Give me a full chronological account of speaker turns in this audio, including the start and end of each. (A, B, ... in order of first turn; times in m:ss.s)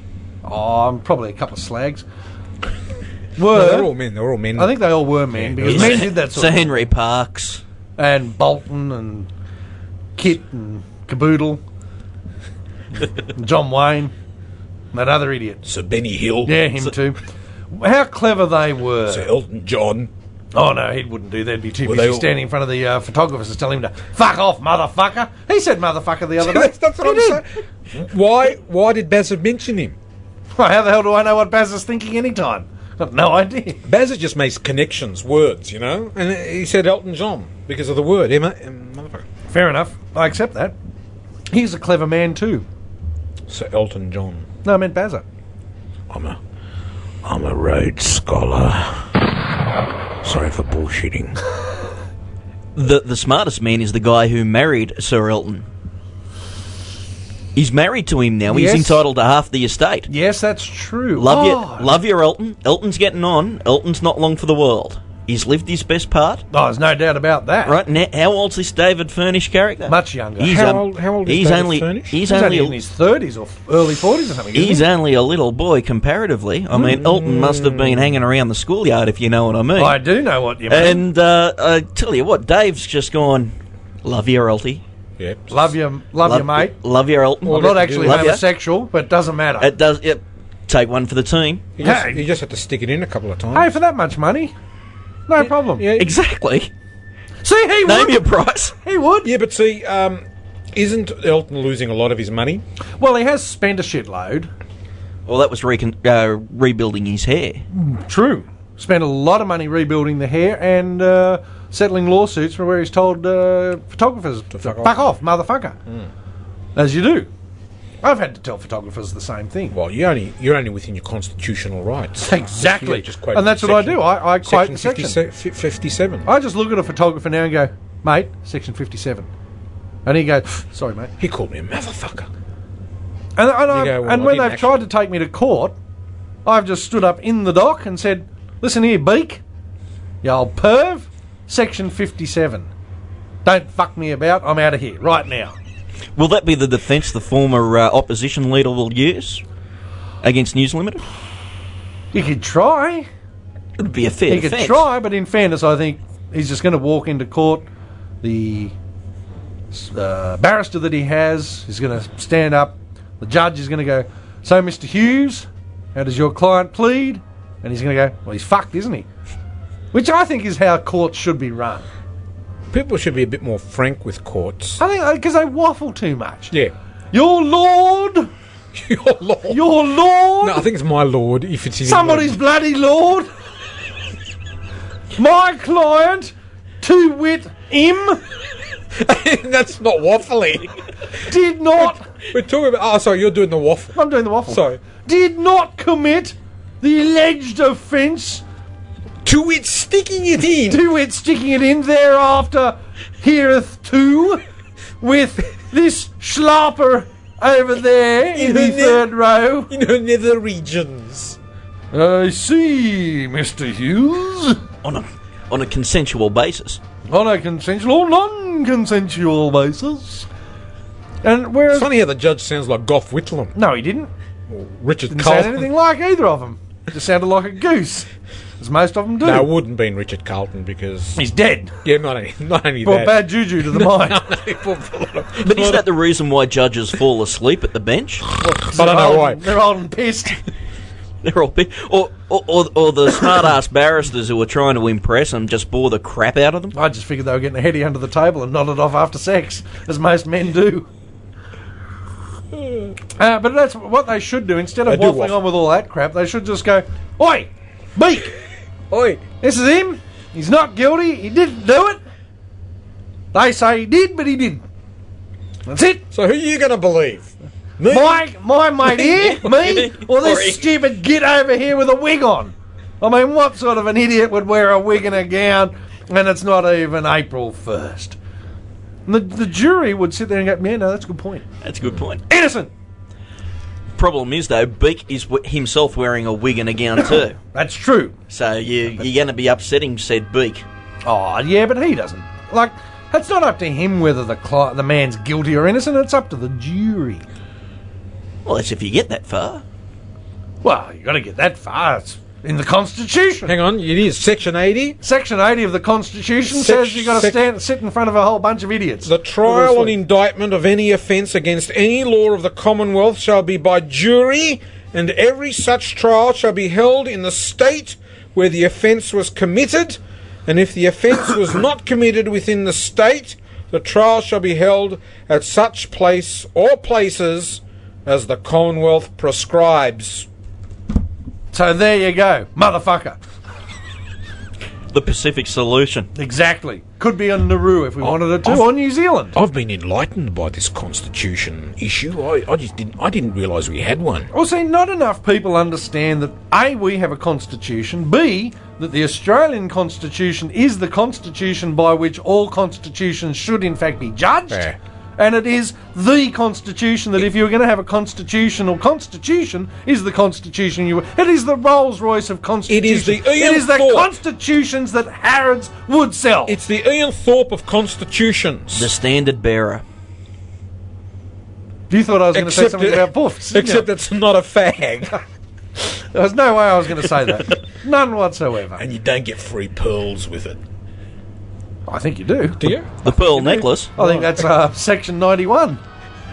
0:00.4-0:02.0 A
0:03.4-0:03.9 A
0:03.5-0:06.0 B
0:04.6-0:06.8 A
0:05.6-0:07.6 C
0:08.0-0:09.3 A
0:10.2-0:11.6 A
0:13.2-0:14.1 A
0:14.9-0:15.6 A
0:15.6-0:16.6 B
0:16.4-0:17.2 A
0:17.7-0:19.3 A
0:19.1-0:20.1 B
0:20.6-0:27.4 A
0:21.8-0:22.3 B
0:26.4-0:30.0 B
0:30.6-0:33.8 A
0:33.9-0:39.3 B
0:39.5-0:40.8 A
0:41.5-0:42.6 A
0:43.5-0:44.5 B
0:44.6-0:45.2 A
0:46.1-0:46.4 B
0:47.2-0:49.2 B
0:50.2-0:51.4 B
0:52.8-0:55.7 C
0:57.6-1:00.1 C
0:58.5-0:59.0 A
1:00.1-1:02.0 A
1:01.2-1:06.4 C
1:06.5-1:07.8 A
1:07.6-1:12.8 C
1:09.9-1:10.6 A
1:10.4-1:12.2 B
1:12.3-1:14.9 A
1:14.5-1:20.0 C
1:16.7-1:18.2 B
1:19.8-1:21.0 A
1:20.7-1:23.5 C
1:24.0-1:24.8 C
1:25.2-1:25.7 B
1:25.5-1:26.8 A
1:26.2-1:28.4 C
1:27.4-1:28.4 B
1:27.5-1:29.7 A
1:29.6-1:31.7 C
1:31.8-1:33.7 B
1:31.8-1:32.2 A
1:33.5-1:34.5 A
1:35.3-1:35.9 A
1:35.4-1:36.1 B
1:36.0-1:36.7 C
1:37.4-1:38.3 A
1:37.8-1:38.8 C
1:38.8-1:39.3 A
1:39.2-1:42.6 B
1:43.0-1:44.5 A
1:45.3-1:47.6 C
1:47.7-1:55.8 A
1:54.6-1:55.0 B
1:56.8-1:57.3 A
1:58.0-1:59.8 A
1:59.7-2:06.3 B
2:02.2-2:05.2 A
2:06.2-2:09.3 A
2:10.0-2:11.1 A
2:11.2-2:12.3 B
2:13.4-2:15.8 A
2:13.7-2:14.8 B
2:16.4-2:19.4 A
2:20.2-2:22.7 A
2:23.4-2:25.6 A
2:26.2-2:29.4 C
2:30.2-2:31.0 C
2:32.1-2:33.1 A
2:33.8-2:34.9 C
2:34.3-2:37.6 A
2:38.2-2:38.7 A
2:39.7-2:49.1 A
2:49.9-2:51.9 A
2:52.7-2:54.8 B
2:54.8-2:56.5 A
2:57.1-2:58.3 A
2:58.7-2:59.8 B
2:59.5-3:00.6 A
3:00.4-3:02.4 B
3:01.8-3:03.3 A
3:05.2-3:08.2 A
3:09.0-3:10.9 B
3:11.3-3:12.1 A
3:11.8-3:14.0 B
3:14.0-3:18.4 A
3:14.5-3:14.8 B
3:19.2-3:20.8 B
3:20.7-3:24.4 A
3:25.0-3:29.7 A
3:28.3-3:29.1 B
3:29.7-3:31.4 B
3:31.9-3:34.6 A
3:34.8-3:36.8 C
3:37.1-3:40.3 A
3:41.2-3:41.9 A
3:41.7-3:43.6 B
3:43.6-3:44.1 A
3:44.5-3:45.7 B
3:45.1-3:48.1 A
3:48.6-3:49.5 A
3:49.2-3:51.2 B
3:51.2-3:51.8 A
3:51.8-3:55.9 B
3:52.8-3:54.3 A
3:55.4-3:58.2 C
3:58.3-3:59.5 B
3:58.4-4:00.4 A
4:01.2-4:06.8 C
4:06.7-4:10.9 A
4:13.2-4:18.4 A
4:14.9-4:15.4 B
4:18.9-4:19.2 B
4:19.4-4:22.0 A
4:23.3-4:24.6 A
4:25.7-4:26.0 A
4:26.1-4:28.2 B
4:27.9-4:38.2 A
4:28.8-4:29.4 B
4:29.2-4:30.7 C
4:39.1-4:41.4 A
4:41.6-4:42.2 C
4:42.3-4:42.7 A
4:44.0-4:47.4 C
4:47.0-4:48.2 A
4:48.3-4:50.6 C
4:51.0-4:57.2 A
4:58.4-4:59.6 C
5:00.6-5:03.5 A
5:03.5-5:05.0 B
5:05.0-5:10.0 A
5:06.5-5:07.4 B
5:09.0-5:30.3 B
5:31.5-5:33.2 A
5:34.9-5:36.1 C
5:36.2-5:39.4 A
5:38.0-5:38.7 B
5:39.4-5:44.3 B
5:44.3-6:06.6 A
5:54.5-5:54.8 B
6:02.7-6:04.2 B
6:06.5-6:08.9 B
6:08.8-6:09.8 C
6:11.9-6:13.9 A
6:12.3-6:15.2 B
6:15.8-6:18.8 A
6:18.8-6:20.6 B
6:21.9-6:22.7 A
6:22.6-6:24.3 B
6:23.0-6:23.9 C
6:24.0-6:25.8 A